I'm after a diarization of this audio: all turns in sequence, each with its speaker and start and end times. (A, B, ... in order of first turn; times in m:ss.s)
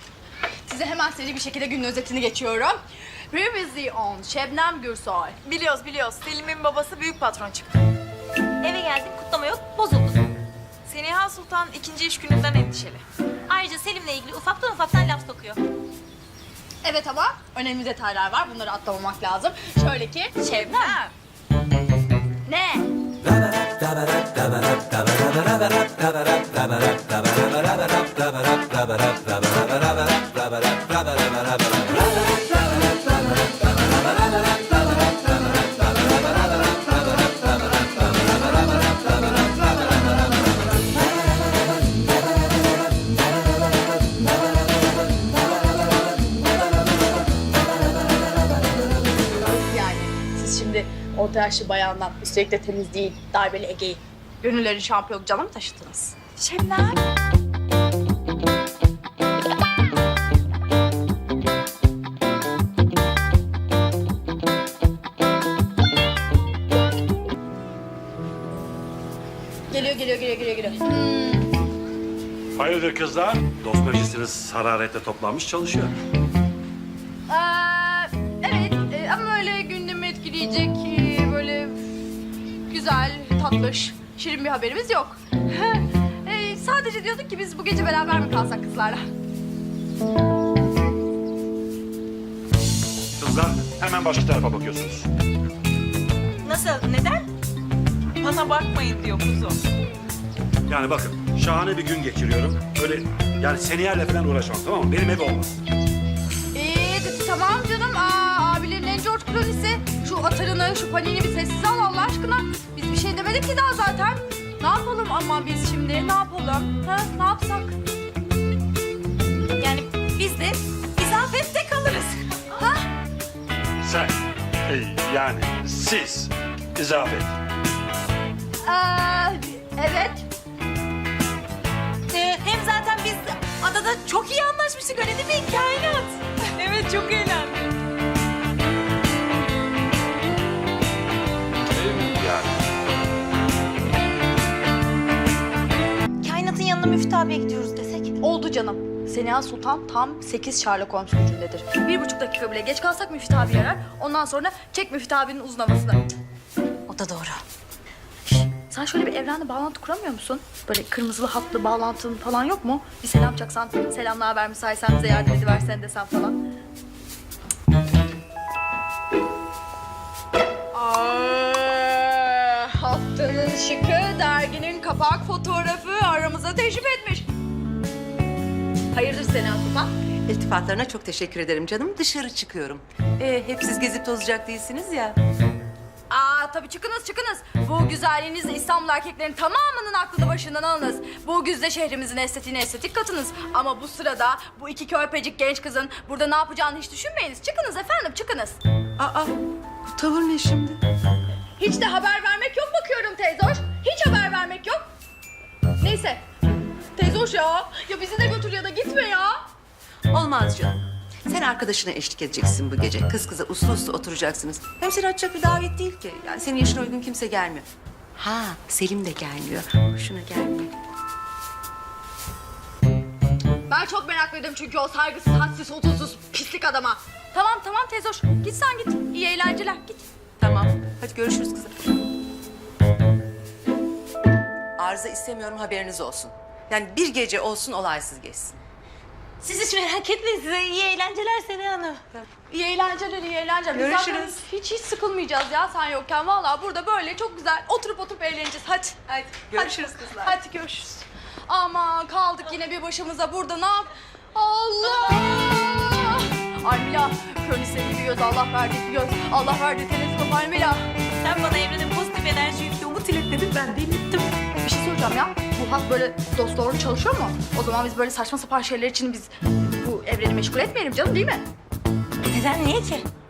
0:00.7-0:02.8 A
0:03.3-0:05.4 A
0:05.4-0:07.8 B
0:08.6-0:10.2 C
0:10.8-0:13.0 B
0:13.5-0:15.6 C
0:16.8-0:21.0 A
0:20.6-0:21.1 B
0:20.7-0:20.9 C
0:22.5-0:22.9 A
0:49.3-0:56.2 A
0:56.4-0:57.0 B
1:09.7-1:11.5 A
1:12.6-1:15.9 D
1:17.3-1:21.8 A
1:22.7-1:29.0 A
1:33.2-1:35.1 D
1:36.5-1:37.2 B
1:38.2-1:39.6 B
1:40.7-1:45.6 D
1:46.5-1:57.8 A
1:59.6-2:02.1 C
2:01.1-2:01.9 B
2:02.6-2:02.9 A
2:03.8-2:07.3 D
2:08.6-2:10.3 A
2:12.1-2:16.0 C
2:13.6-2:16.0 B
2:16.6-2:17.7 B
2:21.8-2:22.5 D
2:26.2-2:28.2 C
2:28.2-2:36.0 A
2:36.9-2:37.4 C
2:38.3-2:46.4 A
2:50.7-2:57.3 A
2:58.9-2:59.9 A
3:00.3-3:05.2 E
3:06.1-3:18.6 A
3:19.0-3:19.3 E
3:19.9-3:20.8 E
3:21.6-3:24.9 A
3:25.8-3:26.2 A
3:27.0-3:29.4 A
3:30.1-3:40.7 E
3:43.7-3:50.0 A
3:50.4-3:51.9 E
3:54.8-3:58.6 E
3:59.4-4:02.0 C
4:02.5-4:10.4 A
4:11.5-4:20.8 A
4:21.2-4:24.3 C
4:24.5-4:31.4 A
4:32.3-4:33.1 C